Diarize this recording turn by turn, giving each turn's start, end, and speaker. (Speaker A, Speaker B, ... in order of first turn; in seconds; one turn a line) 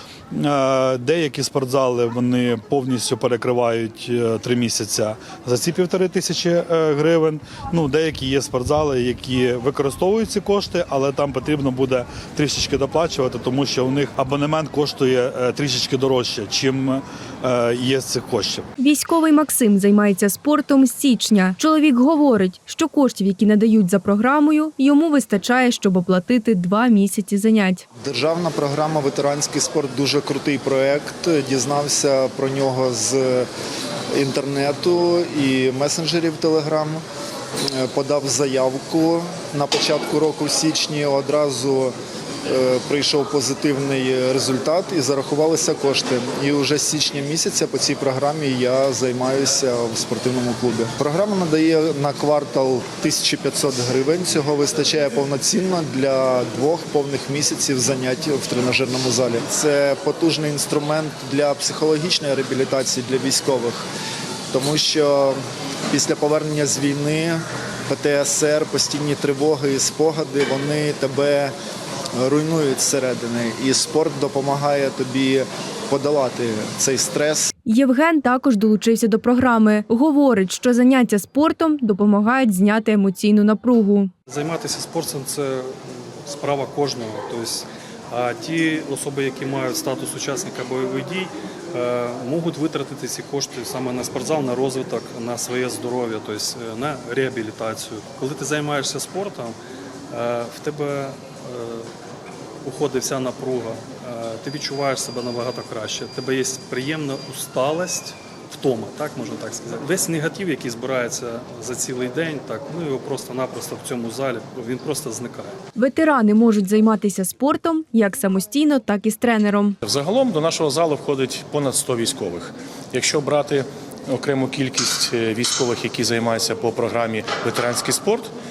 Speaker A: 0.3-18.7
Speaker B: 18.8-27.8
Speaker C: 28.0-33.5
Speaker C: 34.1-37.0
Speaker C: 37.7-41.9
Speaker C: 42.5-63.9
Speaker C: 64.5-65.4
Speaker C: 65.9-71.5
Speaker C: 72.2-77.5
Speaker B: 77.7-84.1
Speaker D: 84.3-99.6
Speaker D: 100.1-101.9
Speaker D: 102.6-115.6
Speaker B: 115.7-119.8
Speaker E: 119.8-128.3